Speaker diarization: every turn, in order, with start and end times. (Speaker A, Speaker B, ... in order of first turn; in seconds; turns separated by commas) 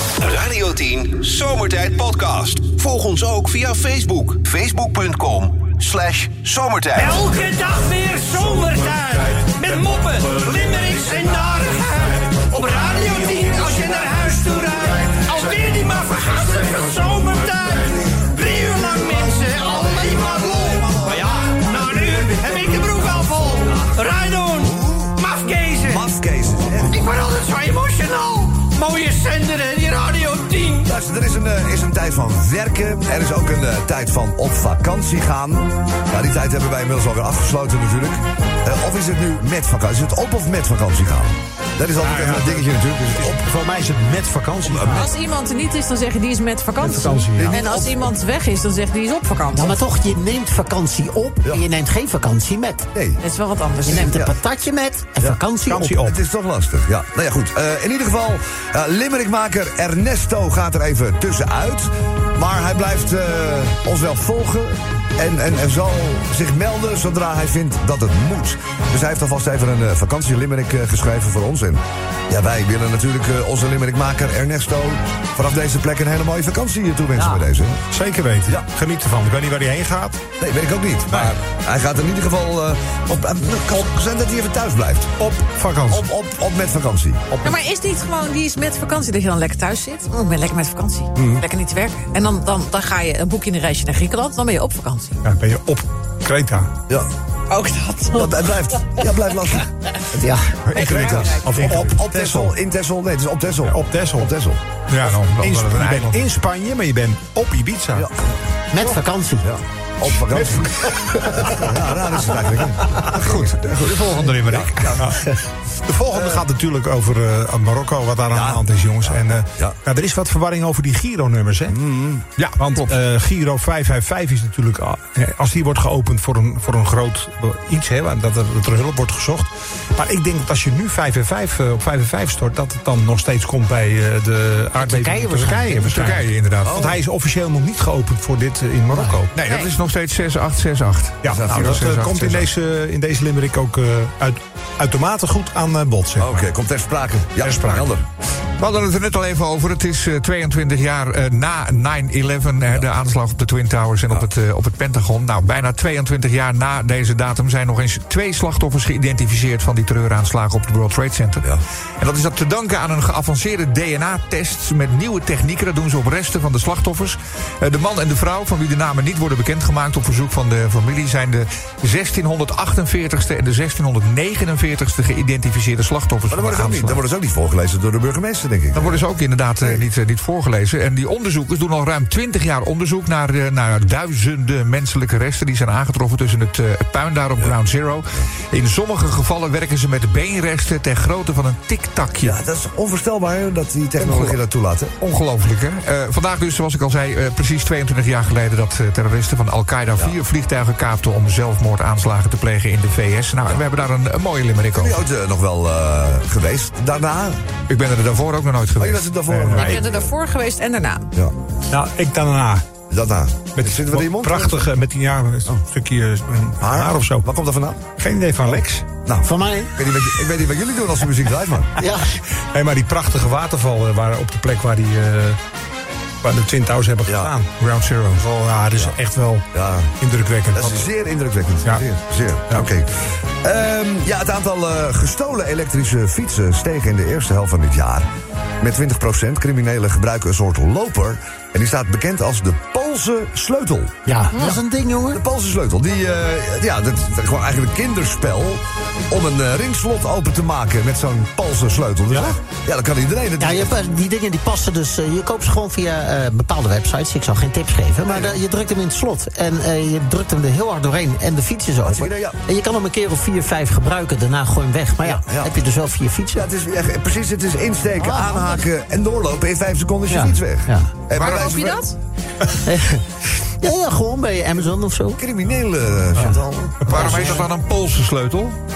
Speaker A: 0.2-7.2, Speaker B: 6.9-26.1, Speaker C: 19.7-21.4, Speaker C: 24.6-25.2, Speaker C: 25.8-27.1, Speaker B: 26.8-30.9, Speaker C: 30.8-43.4, Speaker D: 42.0-45.1, Speaker C: 44.7-45.0, Speaker E: 44.8-49.8, Speaker D: 46.8-47.6, Speaker C: 47.4-48.1, Speaker F: 49.5-52.9, Speaker C: 52.9-53.2, Speaker E: 53.2-54.2, Speaker F: 53.9-56.0, Speaker C: 54.0-54.4, Speaker C: 55.2-77.8, Speaker D: 55.7-56.2, Speaker D: 77.9-80.2, Speaker C: 80.4-85.2, Speaker D: 85.2-86.0, Speaker C: 85.9-87.5, Speaker E: 87.4-95.2, Speaker D: 95.2-96.7, Speaker E: 97.5-99.0, Speaker C: 98.1-104.6, Speaker F: 100.2-100.6, Speaker G: 100.7-101.4, Speaker E: 100.8-101.5, Speaker D: 101.2-102.5, Speaker D: 103.6-104.3, Speaker D: 104.9-108.1, Speaker G: 104.9-106.3, Speaker C: 107.9-108.4, Speaker F: 108.7-109.5, Speaker C: 109.4-115.2, Speaker D: 110.2-111.5, Speaker G: 113.1-115.0, Speaker D: 115.0-115.3, Speaker D: 115.8-121.8, Speaker C: 116.1-116.4, Speaker C: 118.3-119.8, Speaker C: 121.7-122.2, Speaker G: 122.4-123.0, Speaker D: 122.6-139.3, Speaker F: 134.8-136.0, Speaker G: 135.8-136.9, Speaker C: 136.7-137.0, Speaker F: 138.9-139.2, Speaker G: 139.3-142.5, Speaker E: 139.4-139.7, Speaker D: 141.2-146.4, Speaker C: 141.3-141.9, Speaker C: 146.2-148.1, Speaker D: 147.4-147.9, Speaker G: 148.6-161.5, Speaker G: 162.0-177.0, Speaker C: 176.3-179.0, Speaker G: 178.8-192.4, Speaker C: 192.2-194.9, Speaker G: 194.0-194.4, Speaker G: 195.0-205.0, Speaker C: 204.7-207.4, Speaker G: 207.7-209.1, Speaker C: 208.8-210.1, Speaker D: 209.3-209.8, Speaker E: 209.5-211.1, Speaker D: 211.7-212.7, Speaker C: 212.9-214.7, Speaker D: 213.6-217.3, Speaker C: 216.6-217.9, Speaker D: 218.0-218.9, Speaker C: 219.1-221.8, Speaker F: 219.2-219.7, Speaker F: 221.8-222.2, Speaker D: 222.5-225.4, Speaker D: 226.2-229.4, Speaker C: 227.1-227.3, Speaker G: 227.6-228.2, Speaker C: 229.5-229.9, Speaker D: 230.0-230.9, Speaker C: 230.5-232.9, Speaker C: 233.4-238.1, Speaker C: 238.6-244.5, Speaker F: 244.1-245.2, Speaker E: 244.3-244.6, Speaker C: 245.1-253.7, Speaker F: 253.4-266.5, Speaker C: 258.1-258.4, Speaker C: 261.8-262.4, Speaker C: 265.0-265.5, Speaker C: 266.3-271.8, Speaker E: 268.0-268.6, Speaker F: 270.1-270.9, Speaker E: 271.1-271.9, Speaker G: 271.2-271.6, Speaker F: 272.6-275.2, Speaker C: 275.2-277.3, Speaker D: 276.9-277.2, Speaker G: 276.9-278.6, Speaker F: 276.9-277.4